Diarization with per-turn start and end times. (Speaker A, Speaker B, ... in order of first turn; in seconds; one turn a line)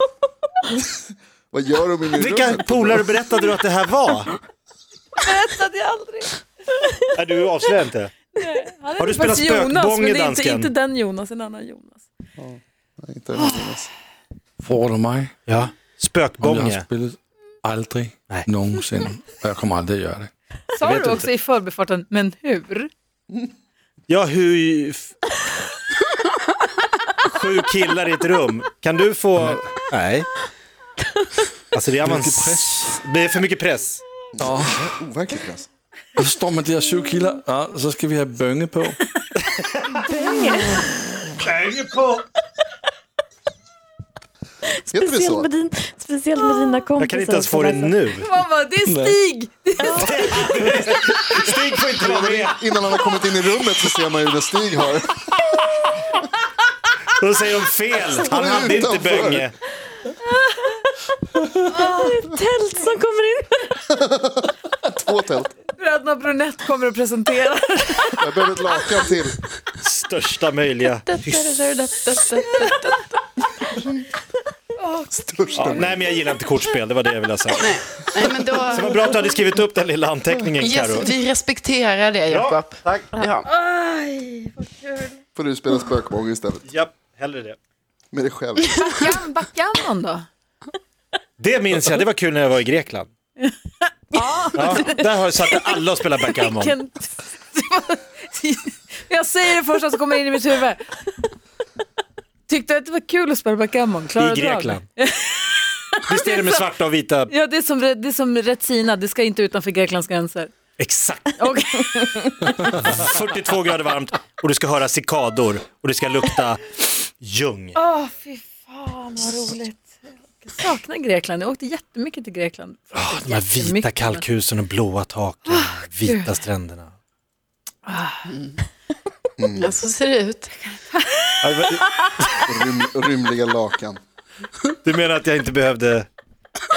Speaker A: 1.5-3.2
Speaker B: 2.2-4.4
Speaker C: 5.2-7.0
Speaker B: 7.1-8.1
Speaker C: 8.4-12.0
Speaker B: 9.0-10.7
Speaker A: 12.4-13.9
Speaker D: 14.6-15.3
Speaker B: 15.5-16.9
Speaker D: 16.4-20.3
Speaker C: 20.7-22.9
Speaker B: 20.8-21.2
Speaker B: 24.1-25.4
Speaker B: 27.2-30.3
Speaker B: 31.7-34.0
Speaker D: 32.0-33.0
Speaker A: 34.3-35.7
Speaker D: 34.4-34.9
Speaker D: 36.2-39.0
Speaker E: 40.0-41.3
Speaker B: 41.4-42.2
Speaker E: 44.6-48.0
Speaker A: 44.9-45.5
Speaker B: 47.0-48.3
Speaker C: 48.1-50.9
Speaker D: 48.9-49.2
Speaker E: 49.8-50.2
Speaker B: 49.9-52.6
Speaker A: 51.4-55.4
Speaker B: 57.1-59.5
Speaker A: 58.0-59.5
Speaker C: 60.3-60.7
Speaker C: 61.6-63.6
Speaker A: 63.9-65.5
Speaker C: 65.8-68.8
Speaker A: 68.2-69.4
Speaker B: 69.8-71.6
Speaker F: 71.1-73.0
Speaker C: 72.4-72.9
Speaker C: 74.8-75.9
Speaker A: 75.1-76.0
Speaker B: 75.5-81.2
Speaker F: 77.6-79.0
Speaker F: 80.6-83.5
Speaker B: 82.3-83.3
Speaker C: 83.5-85.1
Speaker A: 85.3-86.7
Speaker B: 86.7-87.6
Speaker A: 88.1-88.8
Speaker C: 88.7-90.2
Speaker B: 91.4-93.1
Speaker C: 93.4-101.2
Speaker B: 94.5-96.8
Speaker C: 102.5-106.6
Speaker B: 104.2-104.8
Speaker B: 106.1-107.3
Speaker C: 107.3-110.5
Speaker B: 110.8-111.4
Speaker C: 111.4-112.7
Speaker B: 112.6-117.8
Speaker C: 117.8-124.2
Speaker B: 123.0-126.9
Speaker C: 125.5-126.4
Speaker C: 127.9-128.3
Speaker F: 128.3-128.6
Speaker A: 129.4-129.7
Speaker F: 129.6-130.5
Speaker C: 130.8-132.1
Speaker B: 131.4-132.5
Speaker A: 132.5-134.0
Speaker B: 134.8-136.1